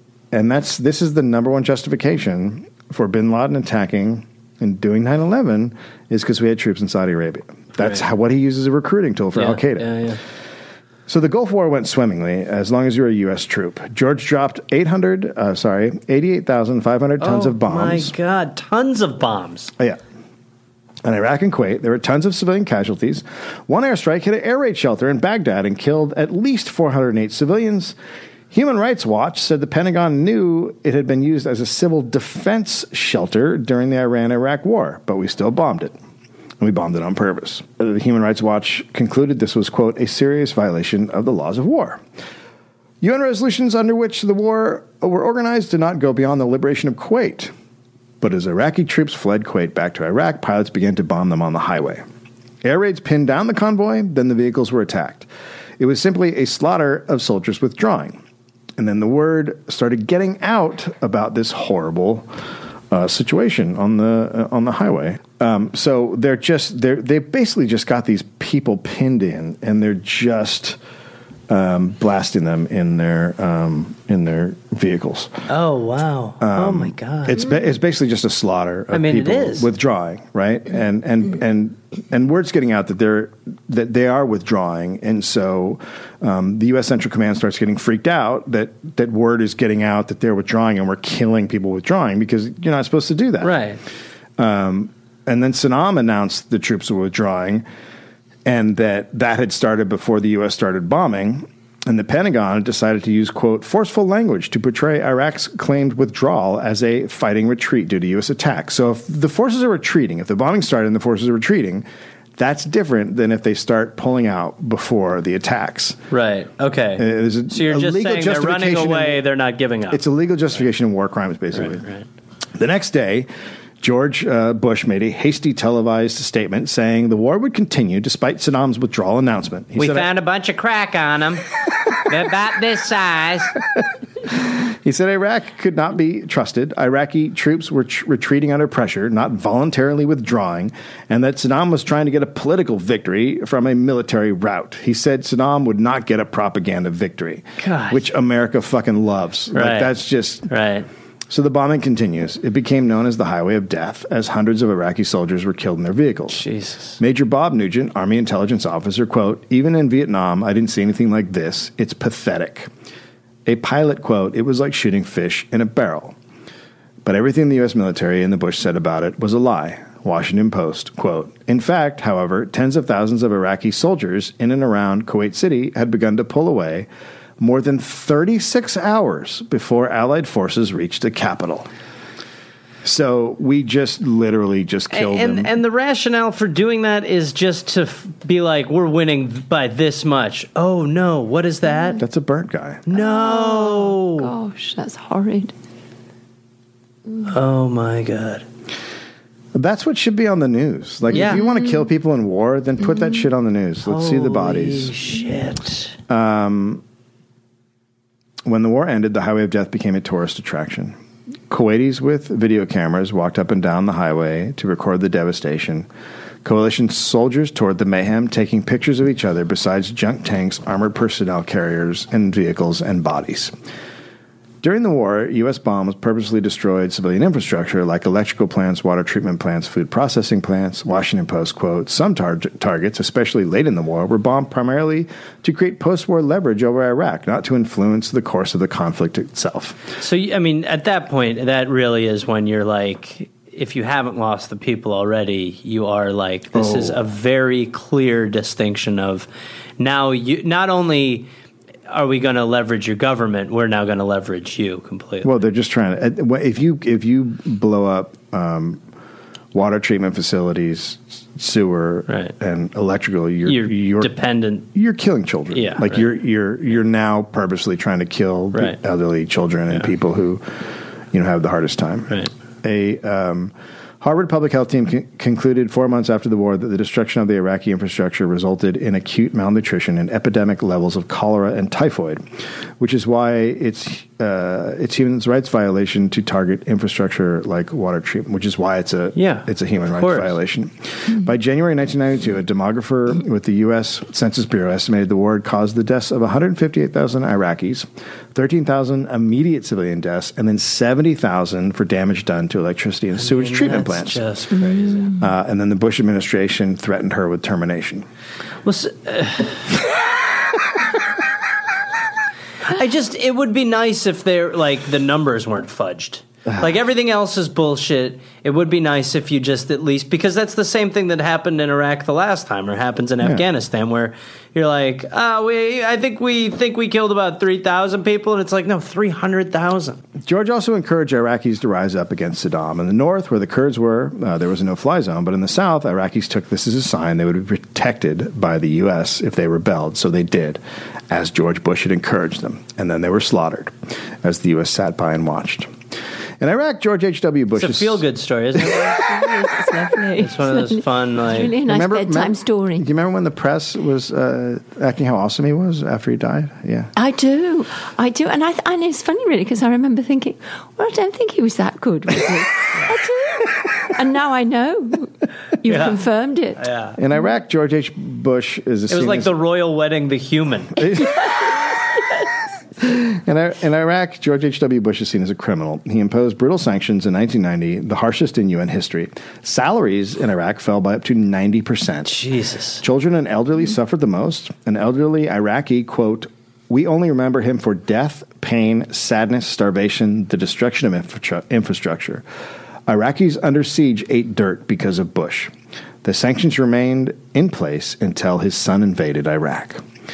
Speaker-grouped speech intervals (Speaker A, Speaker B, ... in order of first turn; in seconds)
Speaker A: 0.3-9.9, 11.1-18.1, 21.0-27.9, 28.5-35.9, 36.6-42.0, 43.0-47.5, 48.2-52.0, 52.6-58.2, 58.8-62.3, 62.9-70.8, 71.5-75.4, 76.4-93.5, 94.4-97.6, 98.4-111.8, 112.4-116.0, 117.0-119.2, 119.9-121.8, 122.5-123.3, 123.8-130.1, 134.2-150.5, 151.3-156.4, 157.0-162.7, 163.4-166.2, 167.0-176.9, 177.4-181.7, 182.8-185.5, 192.0-192.9, 199.5-204.9, 206.1-206.8, 208.4-211.0, 211.5-215.9, 216.4-223.5, 224.6-239.8, 246.5-247.0, 255.2-258.8, 259.5-264.1, 264.7-282.2, 282.8-304.2, 305.0-308.1, 330.2-345.7, 346.4-348.0, 351.6-356.9, 367.0-369.4, 370.8-371.5, 372.8-382.2, 382.8-392.2, 392.9-395.5, 396.0-399.8
Speaker B: 9.3-10.2, 17.2-19.7, 75.5-77.4, 78.9-79.7, 93.4-93.8, 116.1-120.0, 121.5-122.0, 129.8-131.5, 132.0-133.6, 147.6-148.0, 149.5-149.9, 150.5-150.9, 156.3-157.0, 184.9-192.0, 192.9-194.3, 197.2-198.4, 201.1-201.4, 203.8-205.9, 240.0-251.3, 251.9-255.3, 263.4-264.7, 265.5-266.1, 289.1-290.3, 303.2-305.1, 308.6-309.7, 312.6-330.0, 347.6-349.1, 350.2-351.5, 365.6-366.0, 366.6-367.0, 368.9-371.0, 382.1-382.8
Speaker C: 192.9-195.5, 348.9-352.9, 356.9-366.6